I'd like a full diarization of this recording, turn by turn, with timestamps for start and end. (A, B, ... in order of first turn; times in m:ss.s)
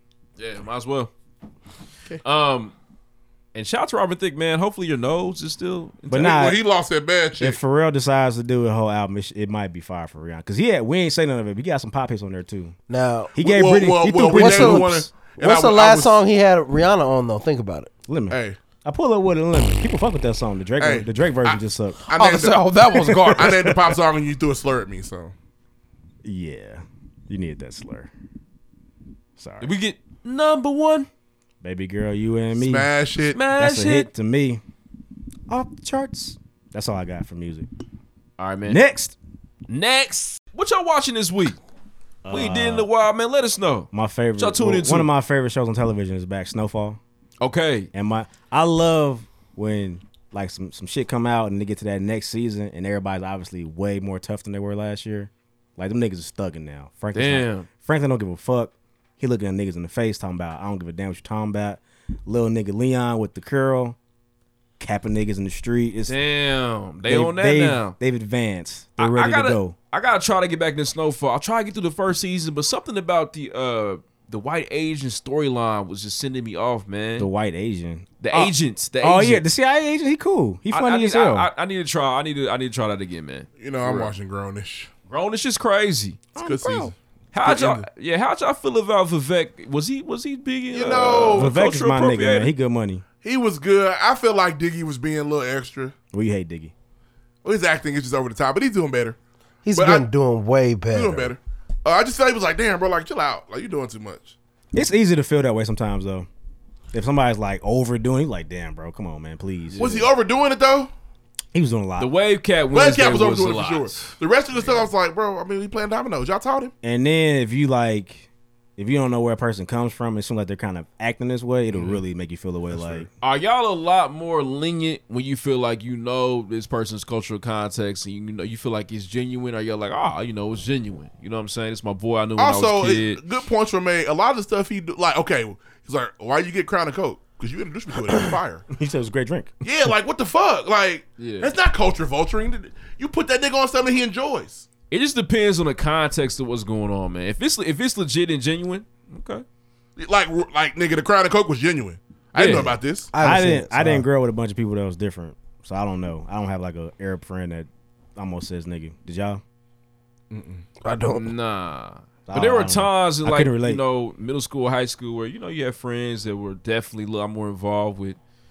0:00.4-0:01.1 A
0:02.2-0:02.7 A
0:03.5-0:06.5 A
0:06.1-0:06.6 B
0:06.1-0:07.6 C
0:07.4-0:12.8 B
0:12.9-0:13.4 D
0:13.3-0:15.1 B
0:13.4-0:16.2 C
0:14.3-0:17.9 D
0:18.1-0:22.0 B
0:18.3-0:18.6 C
0:20.8-0:22.6 C
0:22.1-0:23.8 D
0:23.3-0:25.3 C
0:26.2-0:28.1 B
0:29.4-0:29.7 B
0:29.6-0:31.1 A
0:31.6-0:32.9 B
0:32.5-0:33.4 C
0:33.3-0:34.1 A
0:33.5-0:34.6 B
0:35.5-0:37.7 B
0:38.4-0:38.8 A
0:38.7-0:39.2 B
0:39.7-0:41.6 A
0:42.2-0:42.9 B
0:42.3-0:45.1 A
0:43.9-0:47.0 B
0:47.4-0:47.9 A
0:47.9-1:04.0 B
0:57.1-0:57.7 A
1:04.8-1:06.2 B
1:06.1-1:08.0 A
1:07.0-1:09.7 B
1:09.0-1:17.3 A
1:17.2-1:21.5 B
1:18.2-1:19.4 A
1:20.7-1:24.1 A
1:23.6-1:24.9 C
1:25.1-1:26.2 A
1:26.3-1:26.9 B
1:26.4-1:27.8 C
1:27.3-1:32.5 A
1:30.7-1:31.5 C
1:31.3-1:33.0 B
1:33.2-1:35.9 C
1:36.1-1:36.7 B
1:37.4-1:39.2 C
1:39.6-1:41.3 D
1:39.7-1:40.0 C
1:40.9-1:44.3 C
1:44.7-1:46.3 B
1:46.9-1:50.0 B
1:49.7-1:50.0 A
1:49.8-1:50.9 C
1:51.5-1:52.1 B
1:52.0-1:54.9 A
1:52.7-1:56.7 C
1:56.8-2:03.1 B
2:02.7-2:03.1 C
2:03.2-2:13.2 A
2:12.4-2:18.6 C
2:18.7-2:19.5 B
2:19.6-2:24.6 C
2:21.2-2:21.5 A
2:24.9-2:29.4 A
2:30.0-2:33.1 C
2:32.3-2:32.8 A
2:33.1-2:34.0 D
2:33.2-2:39.4 B
2:40.3-2:40.7 C
2:40.8-2:41.3 D
2:41.1-2:48.2 A
2:42.3-2:43.8 B